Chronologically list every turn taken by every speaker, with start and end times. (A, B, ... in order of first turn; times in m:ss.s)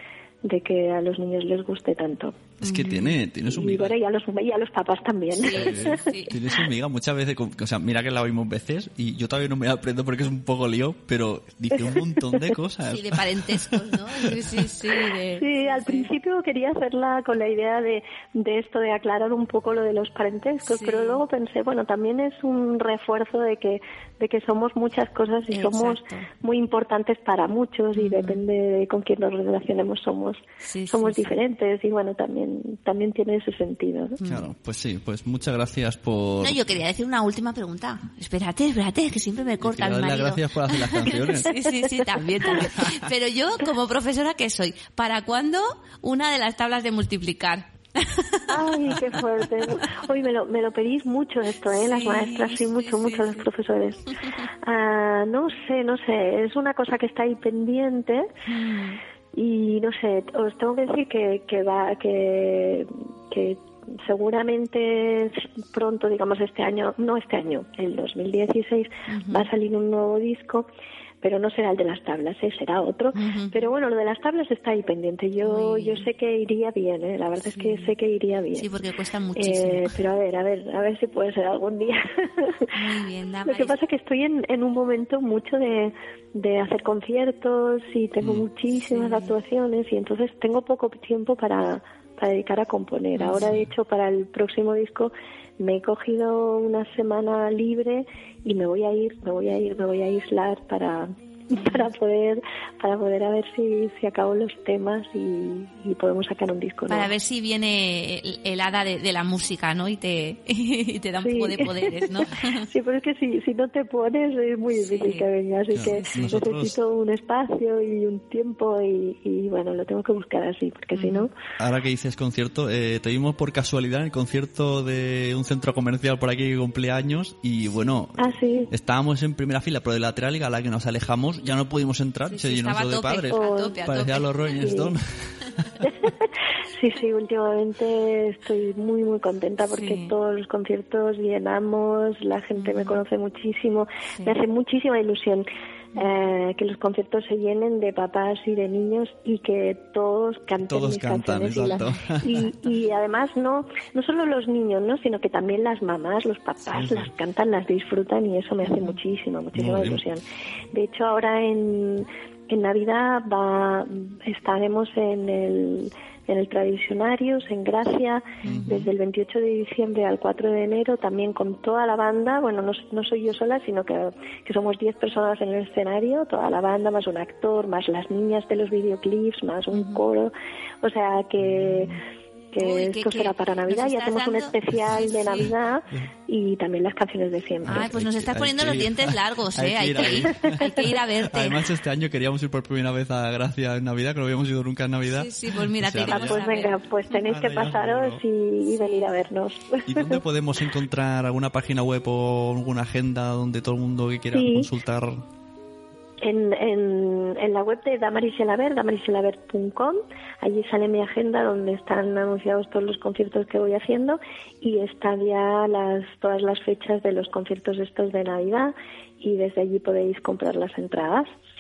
0:00.4-0:02.5 A
0:02.6-0:03.2 B
0:02.6-0:04.0 C
0:03.4-0:06.1 A
0:05.3-0:06.4 B
0:05.5-0:14.3 C
0:12.9-0:16.1 B
0:15.4-0:34.2 A
0:20.7-0:21.2 B
0:25.5-0:26.3 B
0:28.0-0:28.4 B
0:30.6-0:31.3 B
0:34.2-0:34.5 B
0:34.2-0:36.6 C
0:36.4-0:48.8 B
0:39.6-0:41.6 C
0:42.5-0:43.0 C
0:48.5-0:54.0 A
0:51.7-0:53.5 B
0:54.6-0:58.3 A
0:58.5-0:59.0 B
0:59.3-1:10.7 A
1:09.1-1:09.5 B
1:11.2-1:18.7 A
1:13.1-1:13.7 B
1:15.4-1:16.1 B
1:17.6-1:17.9 B
1:18.6-1:20.0 B
1:19.4-1:22.7 A
1:22.7-1:23.8 B
1:23.5-1:47.1 A
1:28.2-1:28.5 C
1:28.9-1:29.3 B
1:33.2-1:33.5 B
1:46.9-1:52.7 B
1:51.2-2:01.3 A
1:54.8-1:55.3 B
1:55.7-1:56.8 C
1:55.9-1:56.3 B
2:01.0-2:01.3 B
2:01.6-2:15.7 C
2:08.2-2:08.7 A
2:12.3-2:14.8 B
2:13.3-2:13.8 A
2:14.6-2:14.9 A
2:15.8-3:02.0 A
2:19.7-2:20.1 B
2:22.6-2:23.0 B
2:30.6-2:32.4 C
2:31.6-2:32.0 B
2:36.7-2:37.1 C
2:38.6-2:39.0 B
2:39.5-2:40.0 C
2:48.4-2:48.8 B
2:48.5-2:48.9 C
2:59.7-3:00.0 B
3:01.4-3:01.9 C
3:02.5-3:07.9 A
3:02.6-3:05.5 B
3:07.7-3:11.6 B
3:07.7-3:16.4 C
3:15.1-3:16.8 B
3:16.0-3:20.2 A
3:17.1-3:18.2 C
3:18.8-3:19.1 B
3:19.8-3:25.2 C
3:24.3-3:24.7 A
3:26.2-3:41.3 A